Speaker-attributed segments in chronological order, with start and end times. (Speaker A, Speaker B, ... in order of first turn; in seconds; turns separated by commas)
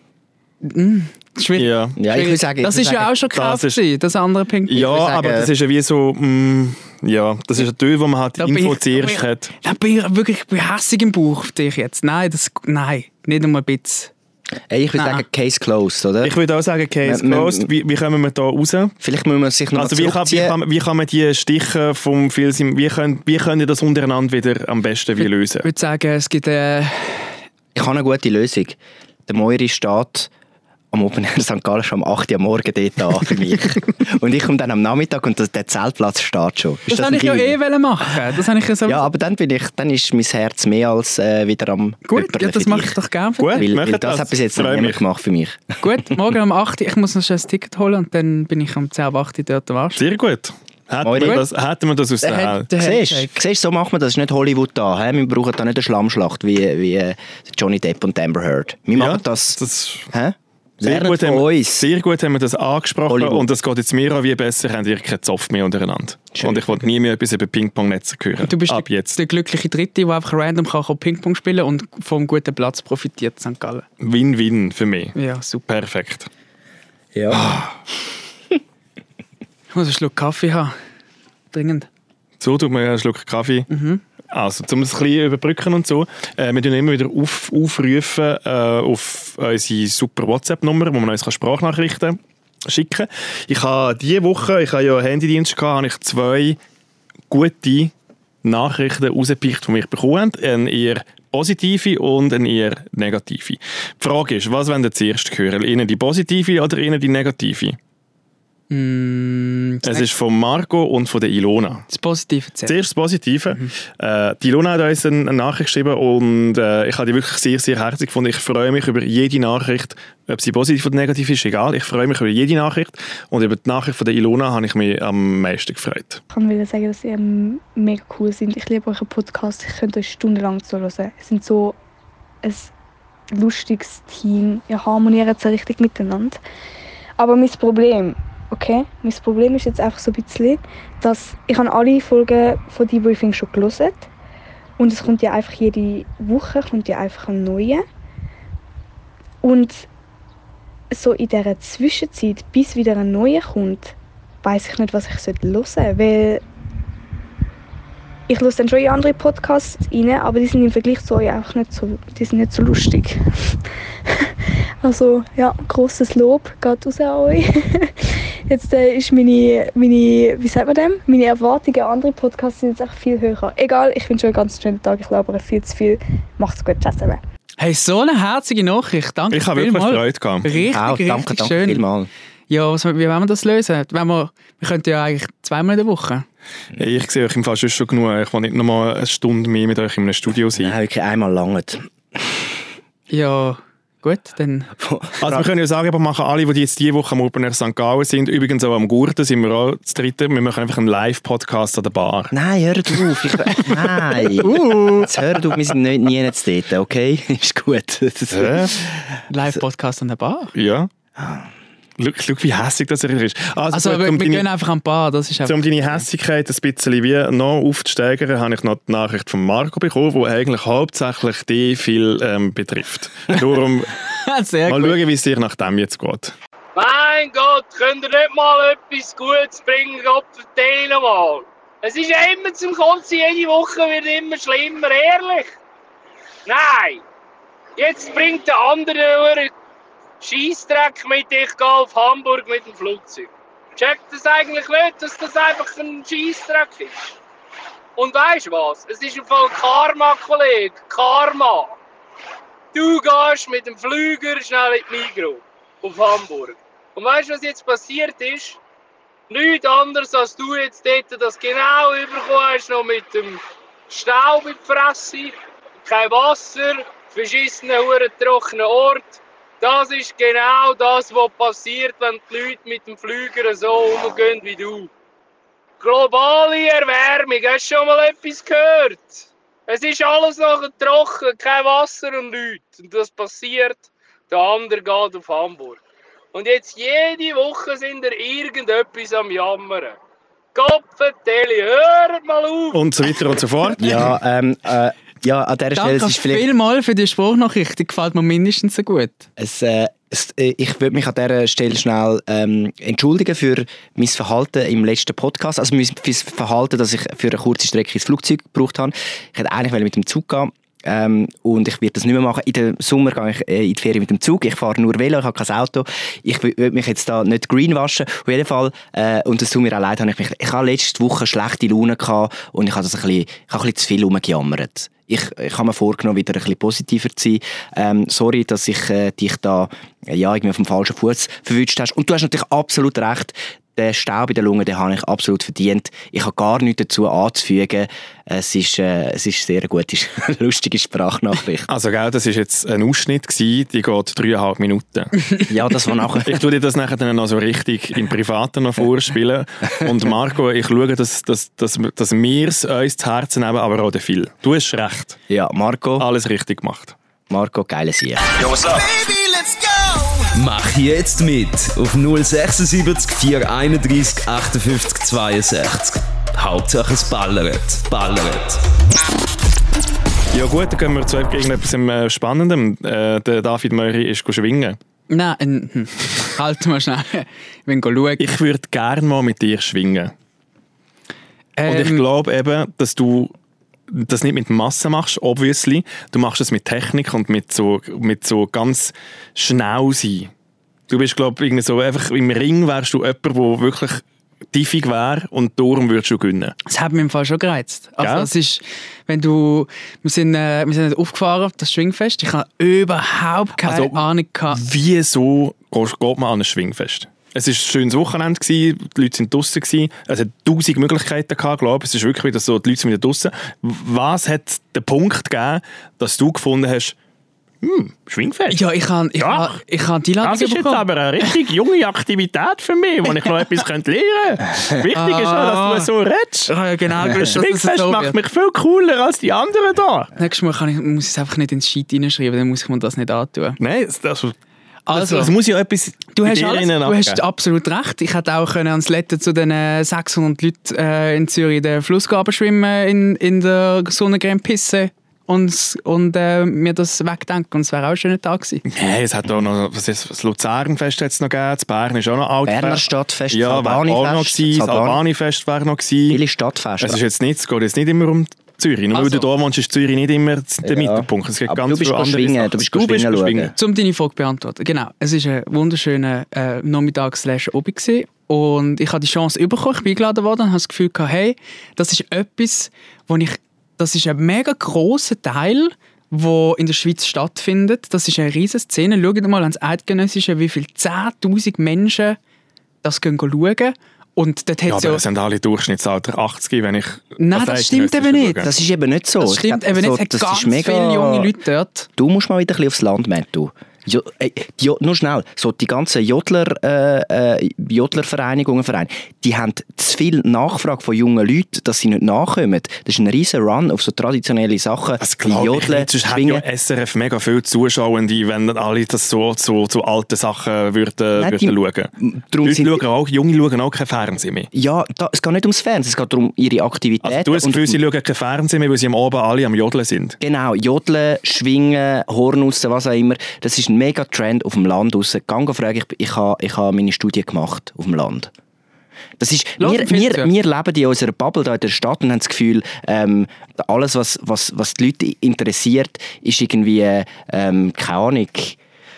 Speaker A: 0.6-4.9, Speaker B: 1.6-2.0, Speaker C: 2.0-3.1, Speaker B: 3.3-3.8, Speaker B: 4.7-9.5, Speaker C: 4.7-5.5, Speaker A: 8.4-14.1, Speaker C: 14.7-16.4, Speaker A: 15.0-15.2, Speaker B: 16.2-18.9, Speaker C: 17.0-17.7, Speaker C: 19.0-20.6, Speaker B: 19.8-25.7, Speaker A: 25.2-27.4, Speaker C: 27.8-30.3, Speaker C: 30.9-37.6, Speaker A: 36.9-39.1, Speaker C: 38.9-43.0, Speaker A: 42.1-43.7, Speaker B: 43.4-45.0, Speaker C: 43.5-45.8, Speaker A: 45.8-50.0, Speaker B: 50.0-52.7, Speaker C: 51.0-51.4, Speaker A: 52.2-53.3, Speaker C: 52.8-59.6, Speaker B: 59.0-60.1, Speaker C: 60.1-61.9, Speaker B: 60.8-69.2, Speaker C: 63.1-63.5, Speaker C: 66.3-66.8, Speaker A: 68.4-73.9, Speaker B: 74.0-75.2, Speaker A: 75.2-75.7, Speaker B: 75.7-76.3, Speaker C: 77.2-77.6, Speaker B: 77.3-77.8, Speaker A: 79.7-80.8, Speaker A: 81.5-81.9, Speaker B: 82.4-83.7, Speaker A: 83.7-84.0, Speaker B: 84.3-96.6, Speaker B: 97.3-97.9, Speaker B: 98.4-107.8, Speaker A: 108.7-110.1, Speaker B: 109.8-111.8, Speaker A: 111.9-112.8, Speaker B: 112.7-126.2, Speaker D: 126.3-131.8, Speaker D: 132.4-132.7, Speaker D: 133.3-136.4, Speaker D: 137.2-144.1, Speaker D: 144.8-147.8, Speaker D: 149.4-149.9, Speaker D: 150.9-156.4, Speaker D: 158.3-163.6, Speaker D: 164.1-177.2, Speaker A: 177.6-181.8, Speaker B: 179.3-180.5, Speaker C: 180.6-182.1, Speaker A: 182.5-186.2, Speaker B: 186.8-190.7, Speaker C: 190.6-192.4, Speaker A: 193.1-194.7, Speaker C: 194.8-195.5, Speaker B: 195.2-202.3, Speaker C: 202.3-209.2, Speaker A: 204.4-205.1, Speaker B: 208.3-208.8, Speaker A: 209.3-210.5, Speaker B: 210.6-210.9, Speaker C: 211.2-211.5, Speaker B: 212.0-214.5, Speaker A: 213.7-216.0, Speaker B: 215.4-223.9, Speaker A: 224.0-225.0, Speaker B: 224.7-226.3, Speaker E: 226.8-235.6, Speaker E: 236.5-237.0, Speaker E: 237.8-239.5, Speaker E: 240.2-247.1, Speaker E: 248.0-251.8, Speaker E: 252.7-258.6, Speaker E: 259.3-274.9, Speaker E: 275.8-285.8, Speaker E: 286.3-290.0, Speaker E: 290.6-292.8, Speaker B: 292.7-294.1, Speaker C: 293.8-296.5, Speaker A: 295.8-299.3, Speaker C: 299.4-341.7, Speaker B: 341.7-345.1, Speaker C: 345.5-346.4, Speaker B: 346.2-355.2, Speaker C: 355.3-356.1, Speaker B: 356.0-356.9, Speaker C: 357.3-358.3, Speaker F: 358.4-368.6, Speaker B: 370.3-374.8, Speaker A: 375.1-378.3, Speaker B: 378.2-380.1, Speaker A: 381.6-382.1, Speaker B: 381.7-383.3, Speaker B: 383.9-390.3, Speaker B: 390.9-396.6, Speaker A: 396.7-404.6, Speaker B: 398.0-398.3, Speaker B: 403.6-417.0, Speaker B: 417.6-418.6, Speaker A: 418.5-421.4, Speaker B: 419.2-419.6, Speaker B: 420.2-430.1, Speaker A: 424.9-425.9, Speaker A: 426.5-428.2, Speaker A: 430.2-433.6, Speaker B: 433.6-434.4, Speaker A: 434.9-435.3, Speaker B: 434.9-437.2, Speaker A: 436.2-448.6, Speaker B: 448.7-456.2, Speaker C: 452.5-455.0, Speaker C: 456.1-457.0, Speaker B: 456.8-463.5, Speaker A: 458.9-459.3, Speaker C: 460.6-463.5, Speaker A: 463.6-482.2, Speaker A: 482.8-485.0, Speaker B: 484.7-488.5, Speaker A: 487.2-488.5, Speaker C: 488.4-491.3, Speaker A: 489.2-491.9, Speaker C: 492.0-506.4, Speaker B: 505.0-511.9, Speaker C: 511.2-512.8, Speaker B: 512.4-514.5, Speaker C: 514.5-517.8, Speaker B: 517.0-520.2, Speaker C: 520.2-528.3, Speaker C: 529.2-538.6, Speaker A: 529.6-530.3